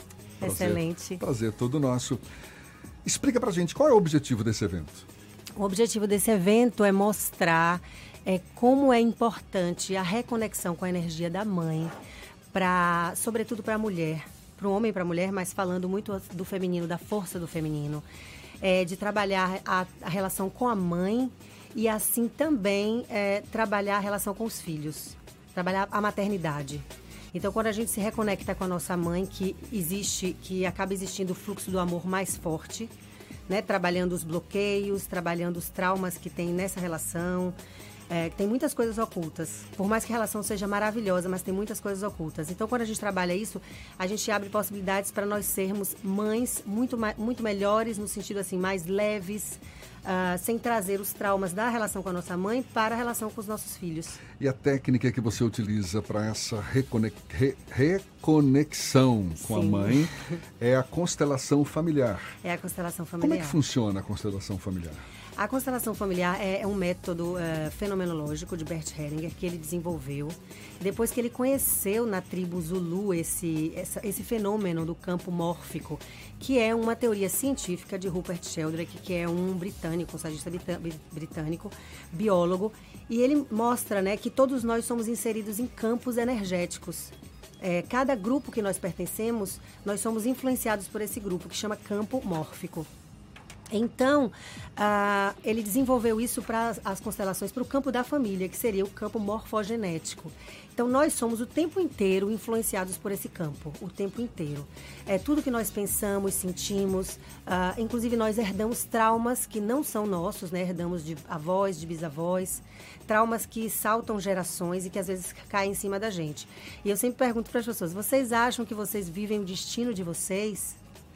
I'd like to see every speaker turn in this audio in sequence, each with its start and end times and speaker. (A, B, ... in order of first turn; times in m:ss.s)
0:00.4-0:01.2 A
0:00.4-0:02.2 B
0:03.0-0:05.0 B
0:05.6-0:11.9 A
0:12.5-0:18.0 A
0:18.6-0:32.9 A
0:33.5-0:37.6 A
0:38.1-0:54.2 A
0:54.4-1:02.3 B
0:59.4-1:00.3 A
1:02.4-1:03.6 A
1:03.2-1:05.0 B
1:05.4-1:32.9 A
1:33.7-2:00.8 A